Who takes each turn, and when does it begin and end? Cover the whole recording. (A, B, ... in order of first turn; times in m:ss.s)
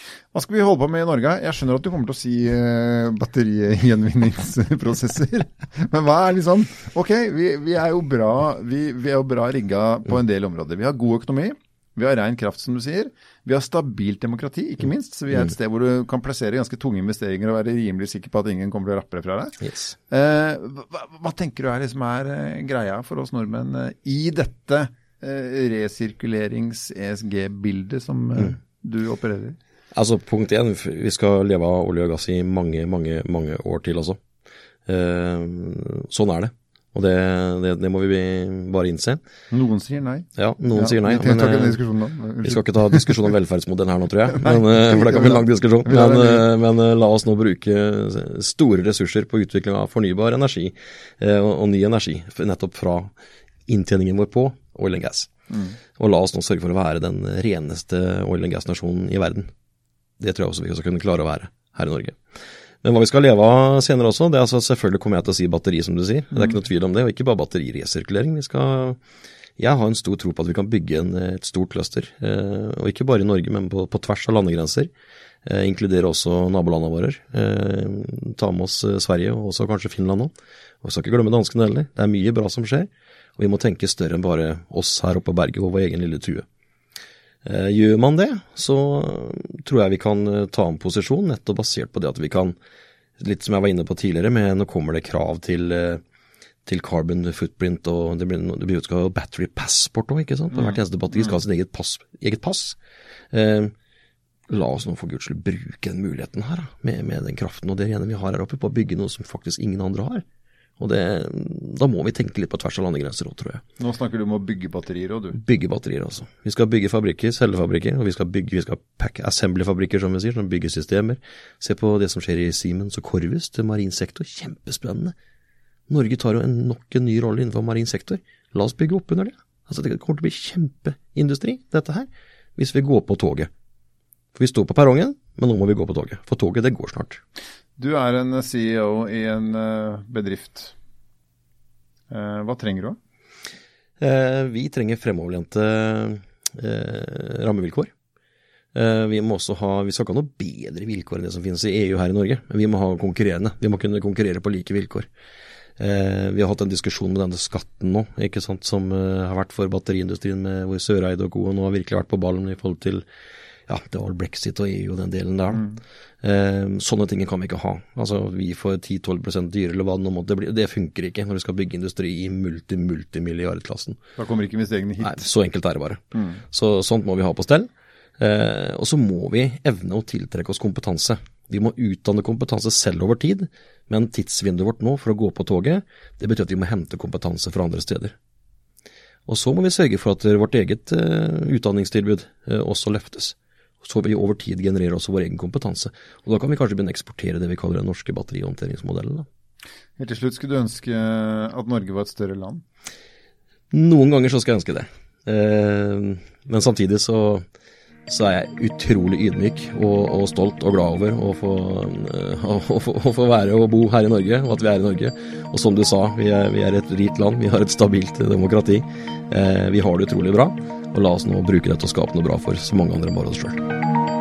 0:00.3-0:29.6 A
0:19.6-0:20.0 B
0:30.0-0:34.2 B
0:34.9-0:39.2 B
0:39.5-0:43.2 A
0:40.4-0:41.8 B
0:42.4-0:53.1 B
0:44.3-0:46.5 A
0:53.7-0:55.3 B
0:55.5-0:55.8 A
0:56.0-0:59.5 B
1:00.2-1:02.2 B
1:02.8-1:09.0 B
1:09.6-1:14.9 B
1:15.5-1:26.5 B
1:27.4-1:32.6 B
1:33.2-1:36.0 B
1:36.7-1:42.8 B
1:40.5-1:41.4 A
1:43.3-1:43.7 B
1:44.5-1:50.2 B
1:50.8-1:53.6 B
1:53.8-1:55.4 A
1:55.3-2:05.1 B
2:05.9-2:13.5 B
2:14.4-2:17.2 B
2:17.8-2:20.8 A
2:22.1-2:23.0 A
2:24.0-2:27.9 B
2:28.7-2:35.1 B
2:35.8-2:43.0 B
2:43.7-2:45.6 B
2:45.5-2:45.8 A
2:46.2-2:54.0 B
2:54.2-2:55.3 A
2:55.0-3:08.2 B
2:56.1-2:56.4 A
3:09.3-3:19.3 B
3:20.0-3:22.6 A
3:23.7-3:27.4 B
3:28.1-3:43.6 B